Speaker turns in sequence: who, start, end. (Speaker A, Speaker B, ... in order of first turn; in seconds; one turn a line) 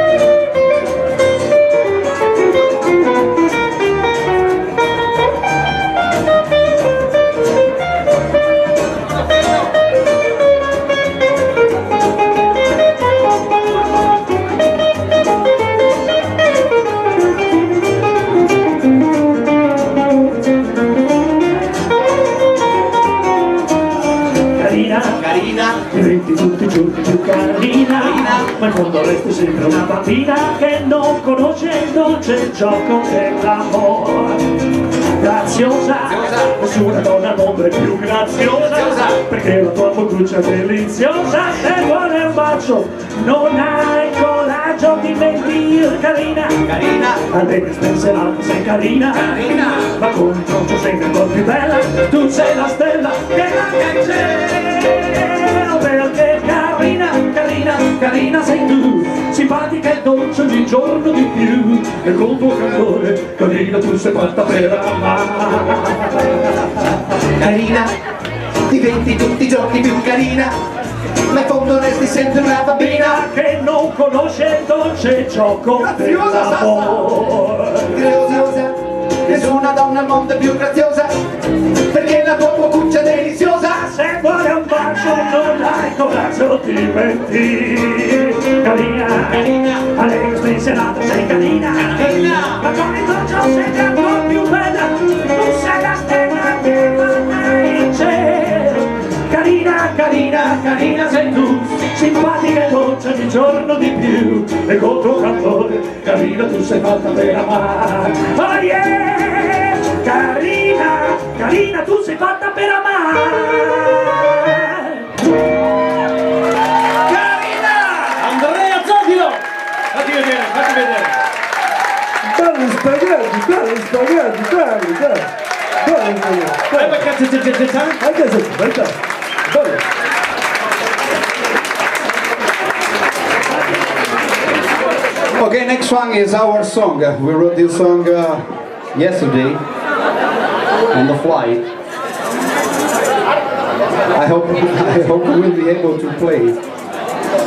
Speaker A: 24.6-25.3
Speaker B: 25.2-25.9
Speaker A: 25.9-34.5
Speaker B: 28.0-28.5
Speaker A: 35.2-46.6
Speaker B: 36.0-36.6
Speaker B: 38.6-39.2
Speaker B: 46.6-47.3
Speaker A: 47.3-66.6
Speaker B: 49.1-50.0
Speaker B: 67.4-68.0
Speaker B: 68.7-70.5
Speaker B: 71.3-73.2
Speaker A: 72.7-78.0
Speaker B: 75.8-77.2
Speaker B: 77.9-81.2
Speaker B: 81.9-83.8
Speaker A: 83.7-115.1
Speaker B: 91.8-92.7
Speaker A: 117.1-118.0
Speaker C: 118.1-121.2
Speaker D: 122.3-125.3
Speaker D: 125.8-127.0
Speaker C: 126.7-128.1
Speaker D: 128.0-128.9
Speaker D: 129.5-129.8
Speaker B: 135.4-138.4
Speaker B: 138.9-139.6
Speaker B: 140.9-141.7
Speaker B: 144.2-146.6